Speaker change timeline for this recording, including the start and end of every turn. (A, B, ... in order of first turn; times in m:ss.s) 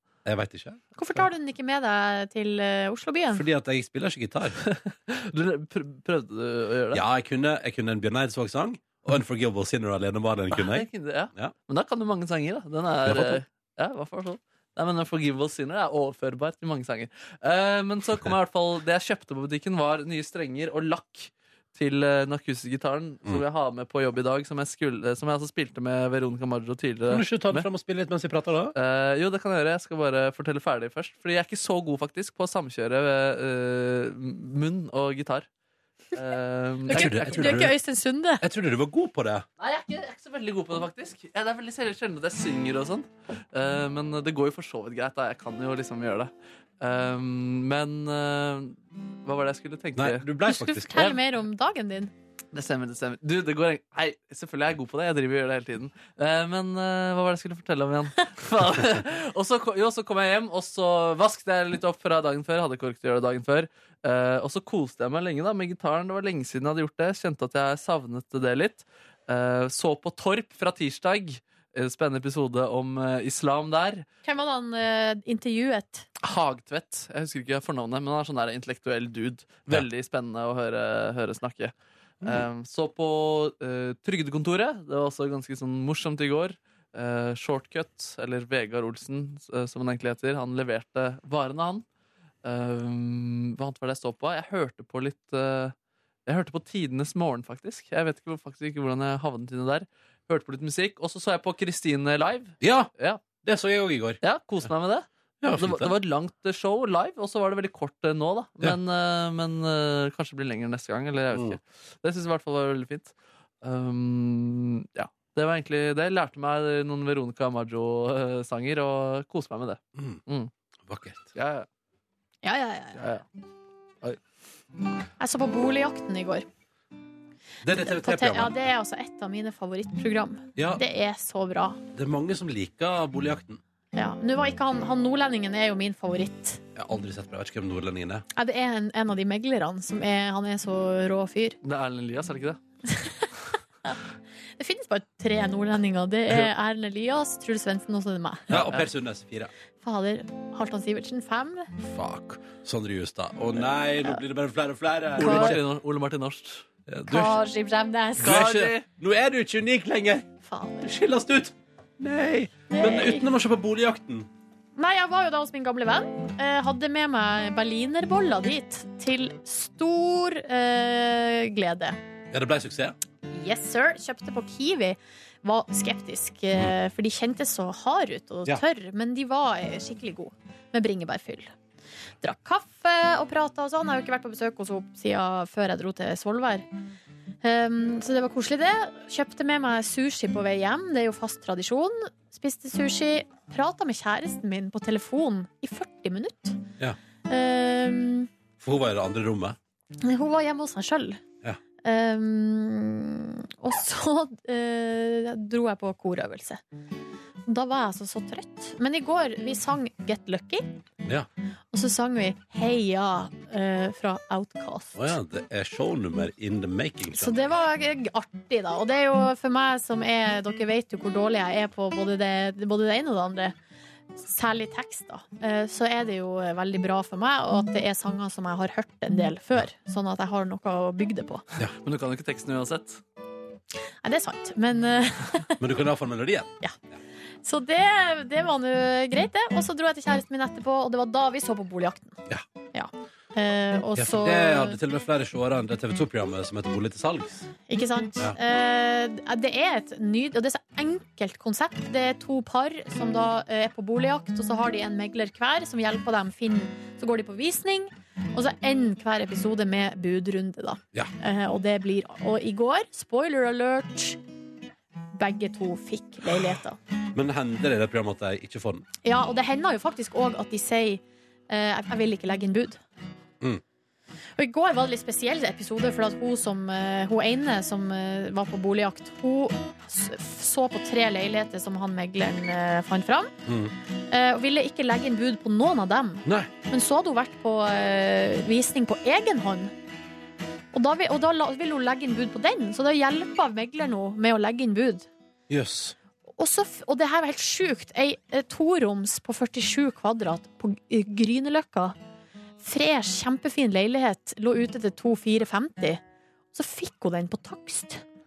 0:00.2-0:00.8 A
0:01.0-0:03.4 B
0:03.3-0:04.6 A
0:04.6-0:07.0 C
0:06.9-0:11.5 A
0:10.5-0:27.7 C
0:13.0-0:13.4 A
0:27.1-0:28.8 A
0:28.8-0:35.5 C
0:36.1-0:37.7 C
0:36.9-0:38.4 B
0:36.9-0:37.8 A
0:38.4-0:39.5 A
0:39.6-0:50.3 C
0:50.0-0:51.1 A
0:50.5-0:52.1 B
0:52.5-1:14.0 C
1:14.2-1:16.1 B
1:16.2-1:31.8 C
1:32.4-1:35.8 C
1:36.3-1:43.2 C
1:42.6-1:42.9 A
1:43.4-1:44.2 A
1:44.2-2:00.5 C
1:45.4-1:45.9 A
1:51.3-1:51.6 A
2:00.0-2:00.2 A
2:00.9-2:01.3 A
2:01.4-2:01.7 C
2:02.4-2:03.0 B
2:03.0-2:03.2 C
2:05.2-2:06.5 B
2:07.6-2:08.6 A
2:07.8-2:11.8 B
2:10.6-2:10.8 A
2:12.0-2:13.6 A
2:13.9-2:16.6 B
2:16.8-2:18.2 A
2:18.4-2:21.6 B
2:21.6-2:22.6 C
2:22.9-2:23.3 B
2:24.6-2:28.5 B
2:28.5-2:28.9 C
2:28.5-2:29.5 A
2:29.8-2:31.7 B
2:31.8-2:35.6 A
2:35.2-2:36.6 C
2:35.2-2:35.6 B
2:36.9-2:37.4 A
2:37.1-2:38.4 B
2:38.2-2:40.3 A
2:38.2-2:38.8 C
2:40.4-2:40.9 B
2:40.8-2:44.3 A
2:42.7-2:43.3 B
2:44.8-2:52.0 B
2:52.3-2:53.0 A
2:53.3-3:01.5 B
3:02.2-3:06.6 B
3:07.4-3:16.6 B
3:17.3-3:18.3 B
3:18.6-3:19.6 A
3:20.0-3:21.2 B
3:21.8-3:26.6 B
3:27.5-3:30.8 B
3:31.7-3:35.1 B
3:35.0-3:37.5 A
3:37.1-3:43.6 B
3:44.2-3:51.4 B
3:51.8-3:53.0 C
3:54.0-3:55.6 B
3:55.6-3:56.5 A
3:57.4-4:02.2 B
4:02.7-4:04.8 B
4:04.0-4:07.5 A
4:07.7-4:24.2 B
4:25.1-4:26.8 B
4:27.2-4:28.8 A
4:29.0-4:32.8 B
4:34.4-4:43.3 B
4:43.5-4:43.7 A
4:44.1-4:49.7 B
4:46.2-4:46.5 A
4:50.7-4:55.1 B
4:55.5-4:56.0 A
4:56.4-5:02.0 B
5:02.6-5:06.0 B
5:06.5-5:08.0 B